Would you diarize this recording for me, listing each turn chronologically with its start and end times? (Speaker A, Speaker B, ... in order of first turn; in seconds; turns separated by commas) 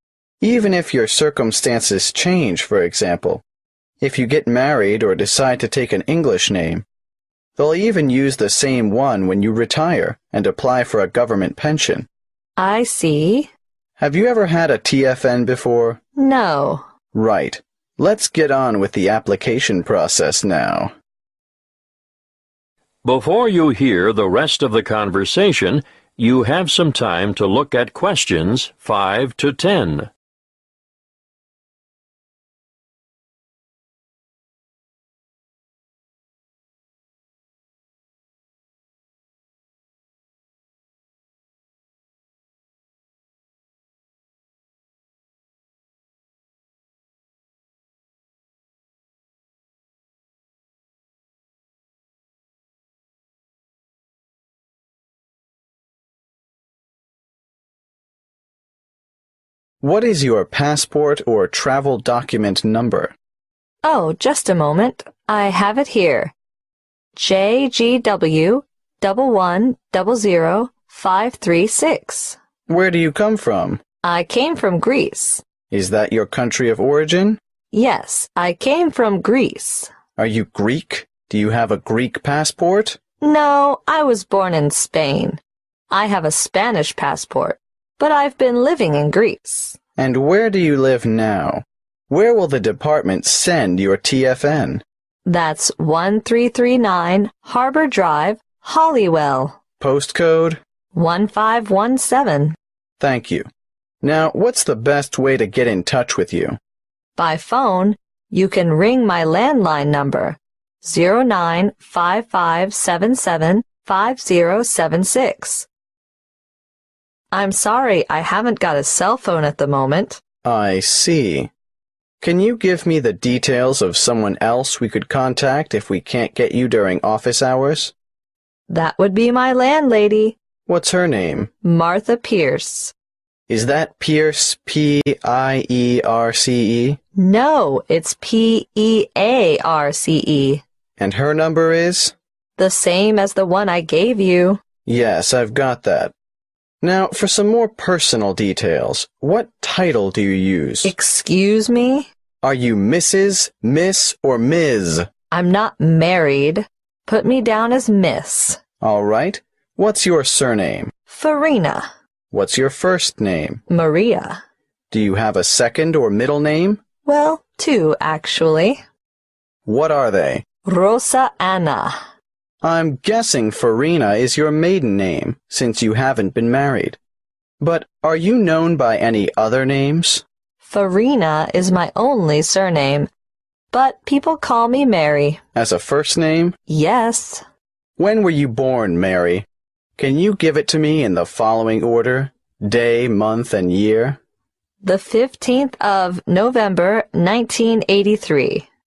Speaker A: 0.4-3.4, Speaker A: 4.0-6.8, Speaker A: 7.5-12.1, Speaker B: 12.6-13.5, Speaker A: 14.0-16.0, Speaker B: 16.2-16.9, Speaker A: 17.1-20.9, Speaker C: 23.0-30.1, Speaker A: 59.8-63.1, Speaker B: 63.8-66.3, Speaker B: 67.1-72.4, Speaker A: 72.7-73.8, Speaker B: 74.0-75.4, Speaker A: 75.7-77.4, Speaker B: 77.7-79.9, Speaker A: 80.2-83.0, Speaker B: 83.2-85.4, Speaker B: 85.9-89.8, Speaker A: 90.0-94.8, Speaker B: 95.2-99.6, Speaker A: 99.8-100.6, Speaker B: 100.9-102.5, Speaker A: 103.0-103.5, Speaker A: 104.0-106.6, Speaker B: 107.2-115.7, Speaker B: 117.3-120.2, Speaker A: 120.4-121.5, Speaker A: 122.2-127.9, Speaker B: 128.7-130.4, Speaker A: 130.7-131.5, Speaker B: 131.6-132.9, Speaker A: 133.5-137.0, Speaker B: 137.2-140.6, Speaker A: 141.0-142.1, Speaker B: 142.6-144.6, Speaker A: 144.8-146.1, Speaker A: 146.8-150.9, Speaker B: 150.8-152.1, Speaker A: 152.4-155.1, Speaker B: 155.3-158.6, Speaker A: 158.8-160.9, Speaker B: 161.1-161.9, Speaker A: 162.3-163.6, Speaker B: 163.7-164.4, Speaker A: 164.9-166.8, Speaker B: 167.0-168.8, Speaker A: 169.7-170.4, Speaker B: 170.6-172.1, Speaker A: 172.6-177.0, Speaker A: 177.6-180.2, Speaker B: 180.6-183.1, Speaker B: 183.7-185.4, Speaker A: 185.5-186.6, Speaker B: 186.7-187.4, Speaker A: 188.0-194.2, Speaker B: 194.8-198.7